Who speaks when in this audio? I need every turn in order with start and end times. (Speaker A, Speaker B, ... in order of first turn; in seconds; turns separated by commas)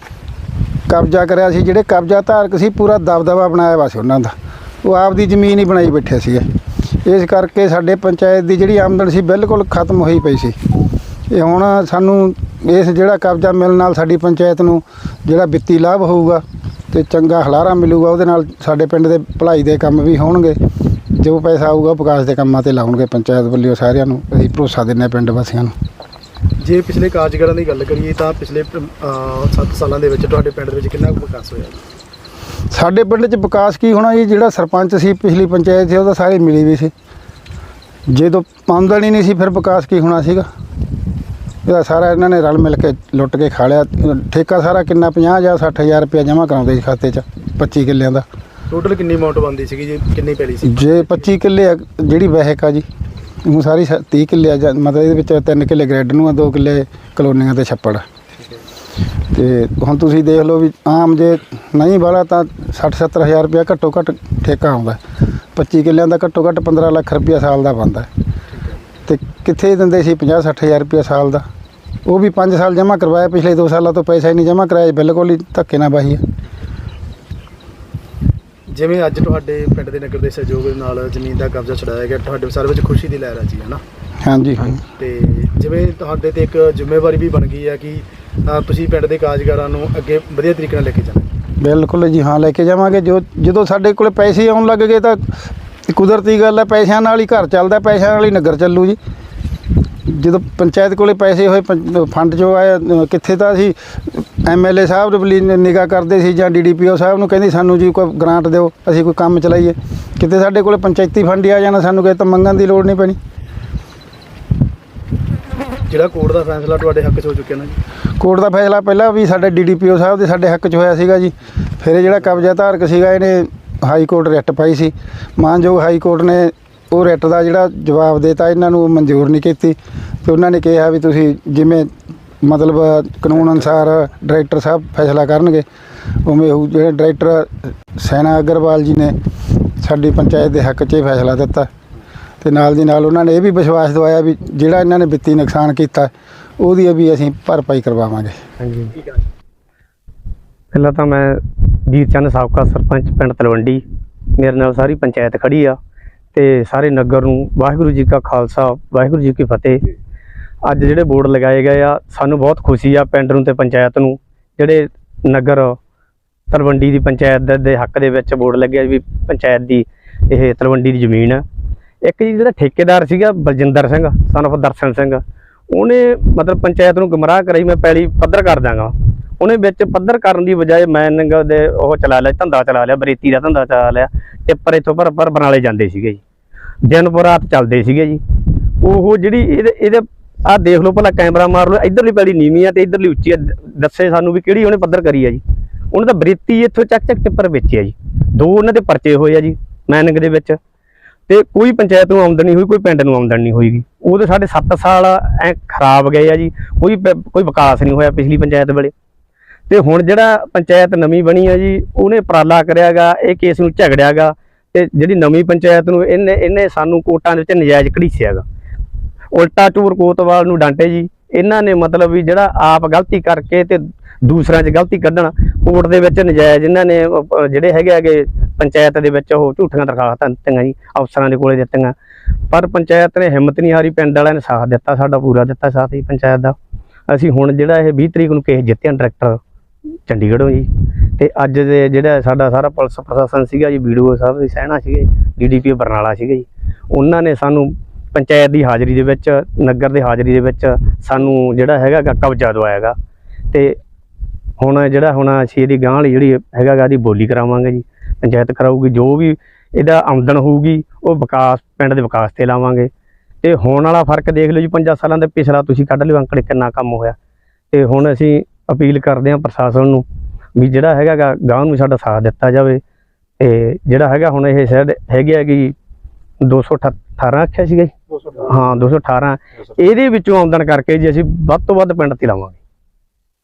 Speaker A: 0.9-6.4, Speaker A: 7.0-10.6, Speaker A: 11.3-20.6, Speaker A: 21.1-25.7, Speaker B: 26.6-31.8, Speaker A: 32.7-36.9, Speaker A: 38.1-40.5, Speaker A: 41.6-48.2, Speaker B: 48.7-51.2, Speaker A: 50.6-52.8, Speaker A: 53.4-58.0, Speaker A: 59.3-65.0, Speaker A: 65.5-68.1, Speaker A: 69.1-71.4, Speaker A: 72.0-76.2, Speaker B: 78.7-83.8, Speaker A: 84.2-84.8, Speaker B: 85.0-91.3, Speaker A: 91.6-95.3, Speaker A: 95.9-99.0, Speaker A: 100.1-113.2, Speaker B: 115.9-117.8, Speaker A: 118.2-131.9, Speaker A: 132.4-135.6, Speaker A: 136.2-139.1, Speaker A: 139.8-141.7, Speaker A: 142.4-148.3, Speaker C: 148.6-148.9, Speaker C: 150.7-153.8, Speaker C: 154.4-155.8, Speaker C: 156.3-159.8, Speaker C: 160.7-165.8, Speaker C: 166.5-171.4, Speaker C: 172.0-175.2, Speaker C: 175.7-186.2, Speaker C: 186.8-188.2, Speaker C: 188.8-195.4, Speaker C: 195.9-200.6, Speaker C: 201.3-208.9, Speaker C: 209.7-218.4, Speaker C: 219.3-231.9, Speaker C: 232.5-236.6, Speaker C: 237.1-239.4, Speaker C: 240.1-252.9, Speaker C: 253.5-253.8, Speaker C: 254.6-262.9, Speaker C: 263.4-267.1, Speaker C: 267.7-270.0, Speaker C: 270.6-272.8, Speaker C: 273.4-275.7, Speaker C: 276.4-282.6